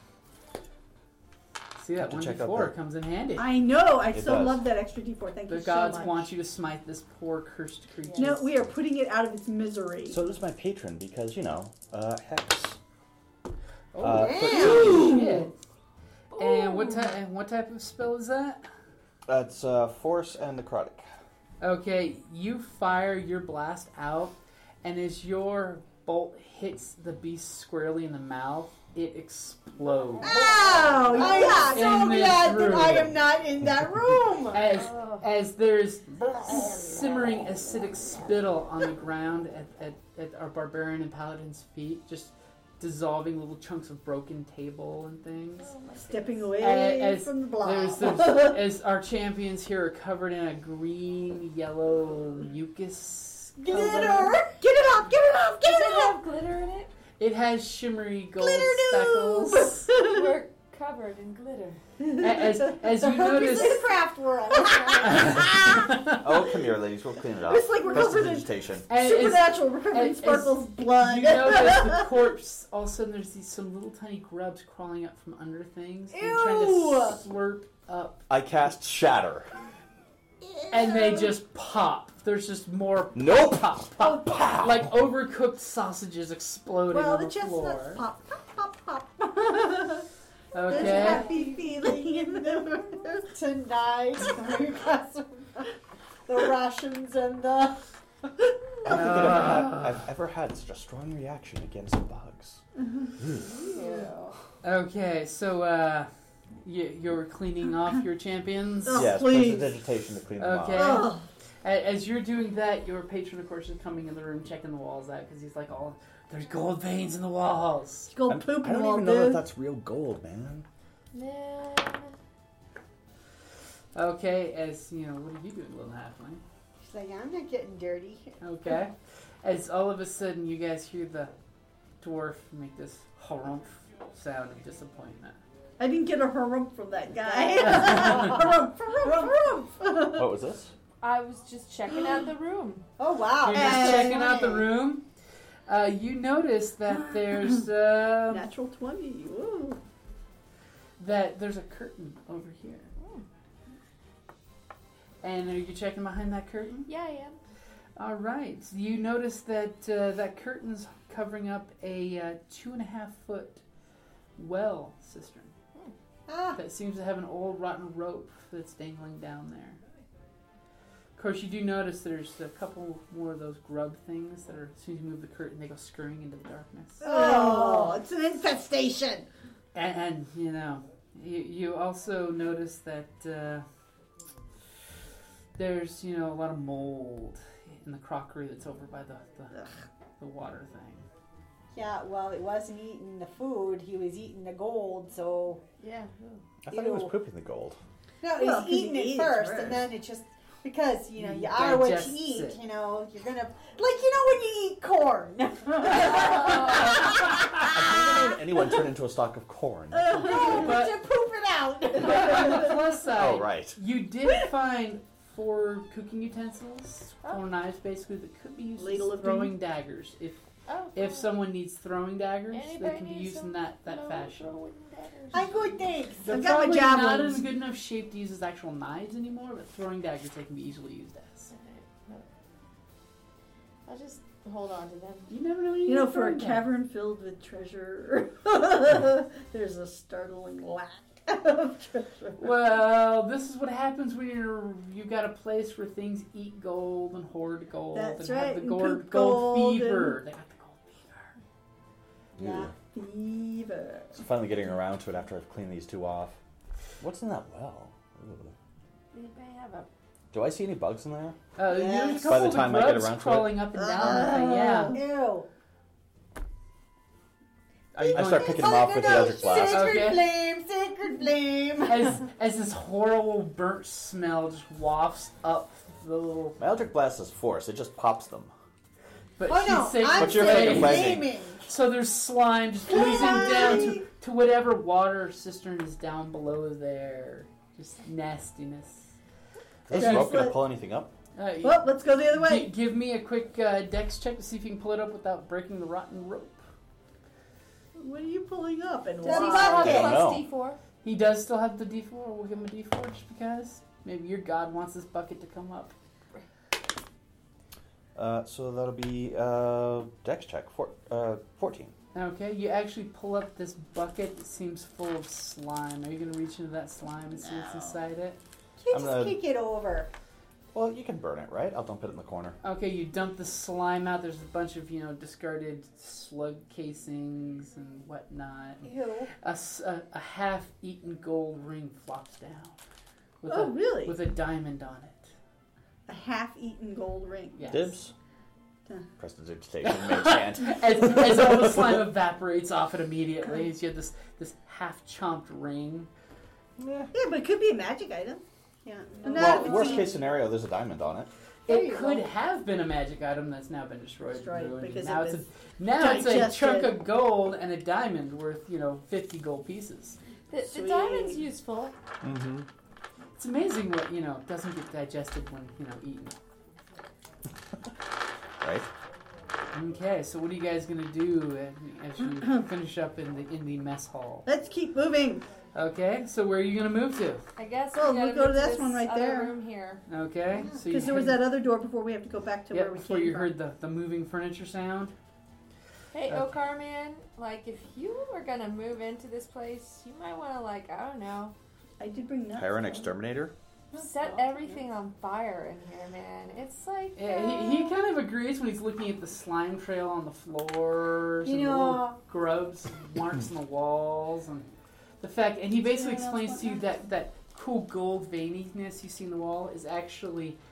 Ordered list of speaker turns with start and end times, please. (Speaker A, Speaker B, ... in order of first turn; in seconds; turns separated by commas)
Speaker A: 1.8-3.5, Speaker B: 2.0-2.7, Speaker C: 3.4-6.3, Speaker B: 4.1-4.7, Speaker A: 5.5-8.5, Speaker C: 8.2-10.2, Speaker B: 10.1-12.8, Speaker A: 13.9-15.6, Speaker B: 14.0-15.3, Speaker D: 14.1-15.0, Speaker C: 14.9-15.5, Speaker E: 16.3-17.1, Speaker A: 16.4-18.7, Speaker B: 19.3-21.1, Speaker A: 21.6-33.2, Speaker D: 30.2-34.7, Speaker E: 30.2-31.9, Speaker A: 34.5-45.7, Speaker E: 34.7-35.2, Speaker E: 45.6-46.5, Speaker C: 46.1-48.6, Speaker A: 46.6-54.4, Speaker D: 53.6-56.1, Speaker C: 53.7-54.2, Speaker C: 54.8-55.8, Speaker E: 55.6-56.9, Speaker A: 57.2-59.9, Speaker D: 58.4-59.7, Speaker C: 59.5-60.3, Speaker E: 59.9-61.8, Speaker C: 62.0-62.4, Speaker A: 62.2-63.8, Speaker C: 63.1-63.8, Speaker D: 63.1-65.9, Speaker E: 64.6-65.3, Speaker A: 65.0-66.2, Speaker B: 66.2-68.9, Speaker C: 67.4-72.1, Speaker A: 68.9-78.2, Speaker D: 76.1-77.2, Speaker B: 78.3-79.5, Speaker D: 80.4-81.4, Speaker A: 80.7-88.0, Speaker B: 83.2-84.9, Speaker D: 86.9-89.0, Speaker C: 89.2-90.1, Speaker A: 90.5-91.3, Speaker C: 90.7-93.2, Speaker D: 90.7-95.7, Speaker E: 90.9-91.4, Speaker D: 96.3-97.9, Speaker B: 98.8-102.6, Speaker A: 98.9-100.0, Speaker C: 102.8-103.1, Speaker B: 103.2-103.5, Speaker E: 103.5-104.1, Speaker D: 103.7-104.3, Speaker A: 104.6-106.1, Speaker A: 106.6-109.5, Speaker C: 108.8-109.7, Speaker B: 108.9-111.1, Speaker A: 110.4-118.1, Speaker C: 110.7-111.3, Speaker C: 118.1-119.4, Speaker B: 118.3-120.7, Speaker E: 121.1-122.1, Speaker A: 124.0-126.4, Speaker D: 126.8-128.4, Speaker A: 128.4-131.3, Speaker A: 132.0-135.4, Speaker C: 135.8-140.3, Speaker D: 137.2-139.7, Speaker B: 140.1-140.7, Speaker E: 141.0-142.9, Speaker D: 143.0-144.7, Speaker A: 143.4-145.1, Speaker C: 143.5-144.3, Speaker A: 145.7-148.5, Speaker C: 148.3-149.8, Speaker A: 151.0-152.9, Speaker E: 153.0-153.2, Speaker A: 155.2-156.9, Speaker E: 156.9-157.4, Speaker A: 158.0-163.6, Speaker A: 164.4-165.5, Speaker D: 166.3-166.6, Speaker A: 166.6-169.8, Speaker A: 171.2-177.1, Speaker D: 177.0-178.0, Speaker C: 177.0-179.3, Speaker A: 179.7-183.7, Speaker A: 185.6-189.5, Speaker A: 190.2-191.0, Speaker D: 191.7-195.6, Speaker E: 195.8-196.4, Speaker B: 196.6-197.8, Speaker D: 196.7-197.2, Speaker D: 198.2-208.2, Speaker C: 198.3-199.9, Speaker A: 201.2-202.6, Speaker E: 206.2-206.9, Speaker B: 207.7-210.5, Speaker C: 209.9-210.7, Speaker D: 210.1-212.8, Speaker A: 210.3-211.0, Speaker A: 212.0-220.4, Speaker B: 213.1-213.8, Speaker C: 218.8-219.5, Speaker E: 220.7-221.3, Speaker A: 220.9-224.5, Speaker E: 222.5-225.7, Speaker D: 225.3-226.3, Speaker A: 226.2-231.5, Speaker C: 226.3-227.4, Speaker E: 231.5-232.2, Speaker E: 233.9-235.3, Speaker A: 235.3-236.6, Speaker C: 235.9-242.5, Speaker A: 242.4-251.4, Speaker C: 247.9-250.2, Speaker D: 252.4-252.7, Speaker B: 252.4-252.7, Speaker C: 252.9-254.2, Speaker B: 254.2-256.4, Speaker B: 257.0-258.5, Speaker E: 259.1-259.9, Speaker B: 260.3-261.4, Speaker A: 261.6-265.0, Speaker D: 261.6-262.5, Speaker B: 262.3-263.7, Speaker D: 263.8-265.5, Speaker C: 264.0-265.0, Speaker A: 267.9-268.8, Speaker D: 268.0-272.1, Speaker B: 268.1-269.9, Speaker A: 269.6-270.2, Speaker A: 271.9-276.6, Speaker B: 276.6-278.5, Speaker A: 279.4-289.1, Speaker D: 279.4-281.6, Speaker B: 280.1-281.3, Speaker D: 282.9-284.1, Speaker B: 289.9-291.1, Speaker C: 289.9-290.6, Speaker A: 289.9-290.5, Speaker A: 291.4-296.6, Speaker C: 291.6-292.7, Speaker C: 298.0-300.1, Speaker D: 299.2-300.2, Speaker E: 299.2-300.8, Speaker B: 299.7-300.5, Speaker A: 301.0-305.9, Speaker B: 308.1-311.9, Speaker A: 312.1-318.4, Speaker C: 317.4-318.0, Speaker D: 318.8-320.1, Speaker B: 318.9-319.4, Speaker B: 320.7-322.6, Speaker A: 322.6-332.8, Speaker D: 328.8-329.3, Speaker A: 333.4-335.3, Speaker C: 333.5-334.2, Speaker C: 336.1-337.7, Speaker A: 337.6-338.0, Speaker B: 337.7-338.1, Speaker B: 339.2-341.8, Speaker A: 339.8-346.1, Speaker B: 346.8-347.1, Speaker C: 347.1-348.4, Speaker D: 348.9-350.2, Speaker C: 349.2-350.1, Speaker B: 349.3-351.3, Speaker D: 351.7-352.3, Speaker A: 351.7-360.2, Speaker C: 354.3-357.0, Speaker E: 360.5-361.9, Speaker C: 360.6-361.4, Speaker B: 362.2-362.7, Speaker A: 363.4-366.4, Speaker B: 368.6-368.9, Speaker A: 369.7-374.5, Speaker C: 374.5-375.4, Speaker A: 375.8-377.4, Speaker E: 377.6-380.0, Speaker C: 377.9-379.5, Speaker A: 380.1-381.4, Speaker D: 380.5-380.8, Speaker C: 380.9-383.5, Speaker A: 382.7-385.1, Speaker E: 386.1-391.6, Speaker A: 386.3-386.6, Speaker C: 392.0-393.1, Speaker B: 392.5-393.5, Speaker D: 393.9-394.5, Speaker E: 393.9-398.0, Speaker A: 397.1-410.6, Speaker D: 401.4-402.2, Speaker C: 405.8-406.9